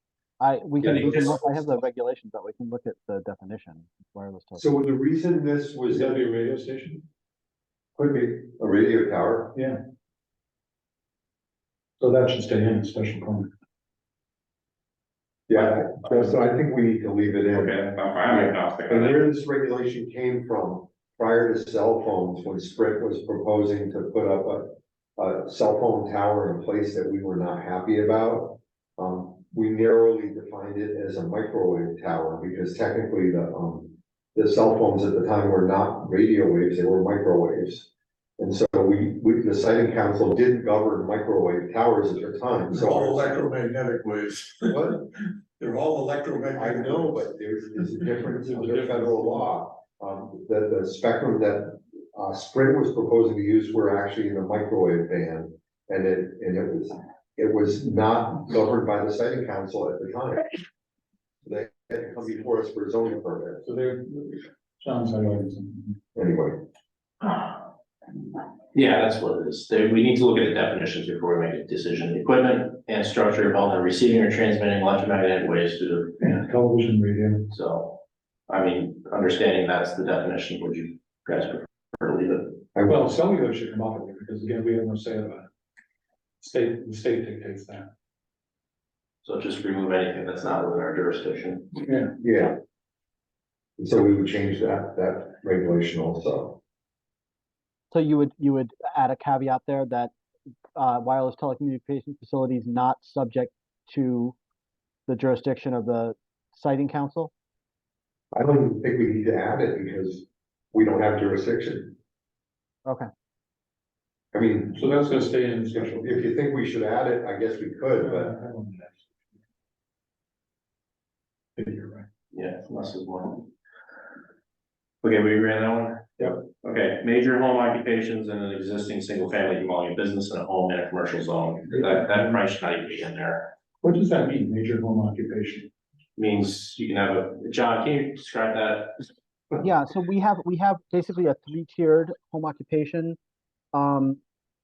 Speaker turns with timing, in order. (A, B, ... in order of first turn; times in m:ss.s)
0:00.4-0:04.7 A
0:00.9-0:01.5 B
0:04.6-0:06.2 C
0:05.9-0:07.0 D
0:08.0-0:09.6 C
0:12.0-0:13.5 D
0:15.5-0:37.9 C
0:17.5-0:19.2 B
0:38.4-0:43.4 C
0:42.7-0:45.0 E
0:44.7-0:45.0 C
0:45.6-0:47.3 E
0:46.5-1:00.6 C
0:48.4-0:49.5 D
1:01.4-1:03.6 C
1:03.6-1:06.0 D
1:06.2-1:06.6 C
1:07.2-1:07.6 B
1:08.7-1:16.2 B
1:16.2-1:17.5 D
1:17.5-1:22.6 B
1:22.9-1:25.5 D
1:26.4-1:27.9 D
1:29.2-1:31.8 B
1:31.8-1:32.1 D
1:32.2-1:32.6 C
1:33.8-1:36.6 C
1:37.9-1:40.1 A
1:40.8-1:44.4 A
1:45.1-1:47.3 A
1:48.3-1:52.0 C
1:54.3-1:55.2 C
1:54.7-1:56.3 D
1:55.7-1:58.3 C
1:58.0-1:59.1 D
2:01.6-2:02.1 D
2:02.3-2:03.5 B
2:05.0-2:13.5 B
2:13.8-2:15.7 D
2:16.2-2:19.1 B
2:19.6-2:23.2 A
2:23.7-2:24.2 A